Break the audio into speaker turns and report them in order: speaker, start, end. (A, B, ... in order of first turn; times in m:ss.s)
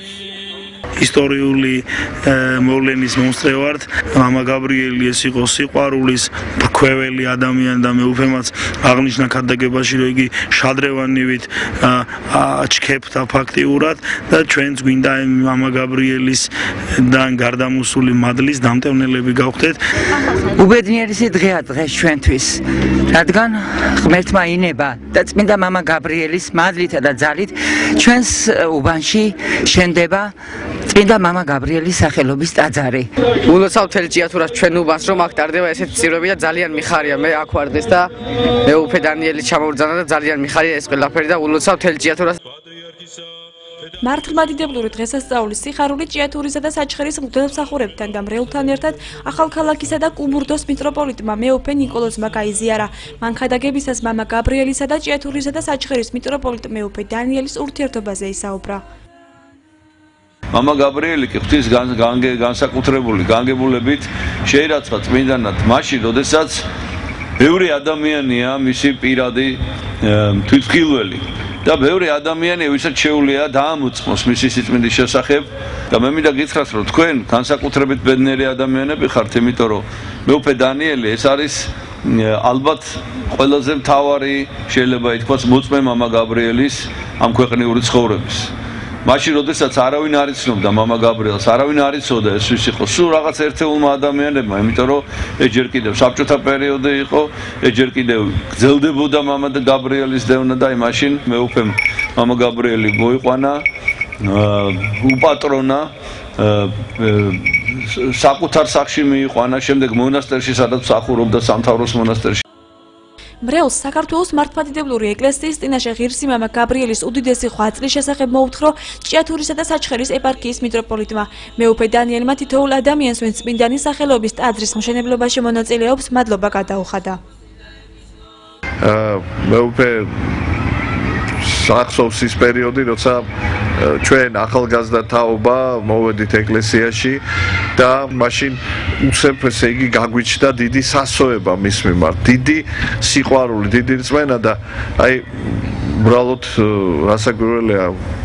0:01.0-0:01.8 A
0:02.7-0:06.2 A
0:06.9-0:11.5 A
0:12.6-0:16.4 A
0:17.2-0:19.7 A
0:20.5-0:30.3 B
0:30.9-0:33.1 B
0:33.4-0:38.1 C
0:38.6-0:42.4 C
0:44.0-0:58.8 D
1:00.5-1:06.6 E
1:07.4-1:28.5 E
1:29.0-1:43.6 E
1:44.2-1:52.4 E
1:53.4-2:07.2 D
2:08.8-2:10.7 F
2:11.4-2:13.2 F
2:13.8-2:17.2 F
2:17.8-2:28.0 F